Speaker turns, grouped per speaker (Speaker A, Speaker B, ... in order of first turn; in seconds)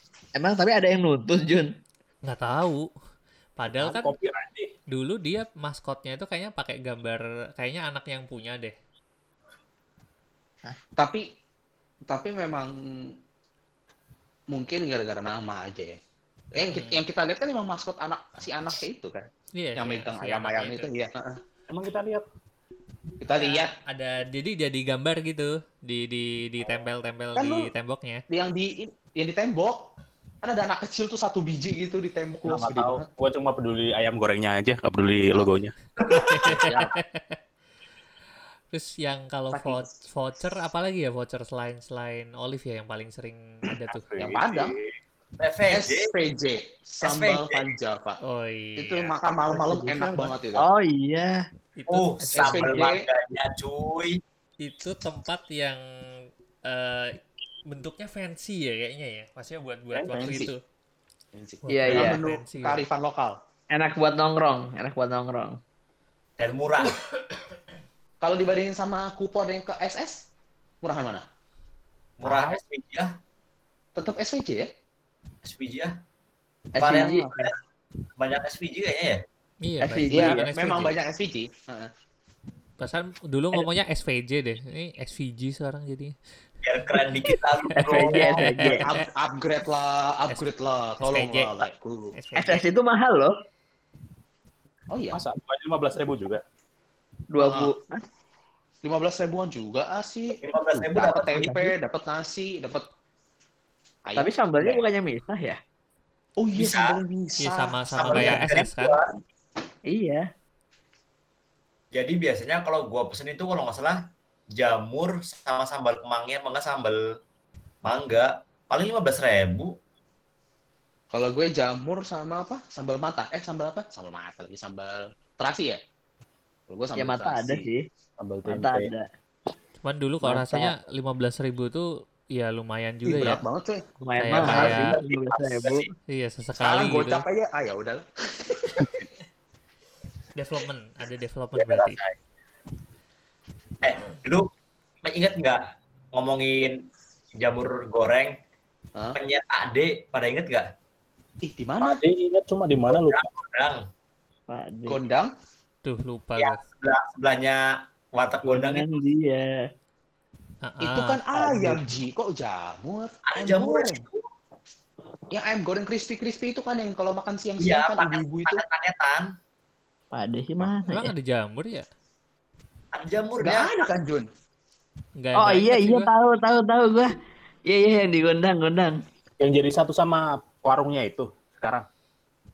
Speaker A: 0.4-1.7, 49.5-51.5, 61.7-62.2, 63.7-65.6, 76.8-77.5, 79.9-80.4, 87.9-88.9, 92.4-93.3, 97.3-98.0, 100.8-101.7, 104.2-105.6, 109.9-110.3, 127.0-127.8, 128.5-129.1, 130.2-130.7, 134.0-135.9, 154.5-155.0, 158.4-159.6, 170.1-171.1, 175.4-177.1, 177.7-179.0
Speaker B: 2.3-2.9, 3.6-4.1, 4.9-8.8, 16.6-17.0, 19.6-20.9, 23.4-28.2, 36.1-37.4, 38.7-44.1, 48.2-49.1, 50.0-50.3, 51.8-52.9, 54.6-60.6, 61.6-62.9, 72.2-72.6, 79.6-81.0, 82.8-86.2, 87.8-89.0, 91.0-91.6, 92.2-92.6, 107.4-109.0, 129.8-133.4, 134.2-135.0, 136.1-137.2, 140.3-142.0, 155.8-156.6, 160.6-161.2, 170.9-171.9, 175.2-176.1
Speaker C: 3.7-4.7, 21.7-22.3, 32.5-35.8, 36.5-36.9, 44.0-45.0, 95.1-96.4, 128.2-128.9, 151.8-153.2, 179.4-181.9
Speaker D: 11.0-11.2, 12.1-13.2, 14.5-16.0, 16.5-21.4, 23.2-23.7, 27.4-27.7, 28.3-29.9, 30.4-33.1, 39.5-40.0, 44.2-44.7, 45.7-48.2, 48.8-50.6, 52.3-53.0, 60.0-60.5, 61.3-63.4, 68.2-70.2, 70.8-71.2, 74.0-74.7, 76.7-77.3, 80.1-81.9, 88.8-92.1, 94.9-95.2, 97.4-97.7, 98.8-100.4, 100.9-102.9, 104.1-104.8, 106.4-108.3, 121.1-125.8, 126.7-127.7, 133.1-134.9, 136.6-139.0, 151.4-152.0, 154.9-155.3, 160.8-164.0, 165.3-168.6, 173.4-174.3
Speaker E: 36.0-36.7, 45.4-46.1, 47.0-47.6, 51.9-54.2, 66.4-67.0, 72.2-73.1, 75.4-76.0, 76.8-77.5, 78.2-79.2, 86.6-88.4, 100.4-101.5, 106.6-107.0, 107.9-109.2, 111.9-114.0, 114.5-117.0, 117.8-119.7, 134.5-135.9, 141.6-142.2, 143.8-144.5, 145.0-145.6, 146.1-146.8, 147.3-148.4, 149.2-150.7, 152.9-153.8, 156.4-158.9, 163.3-164.3, 167.6-169.3, 172.9-173.7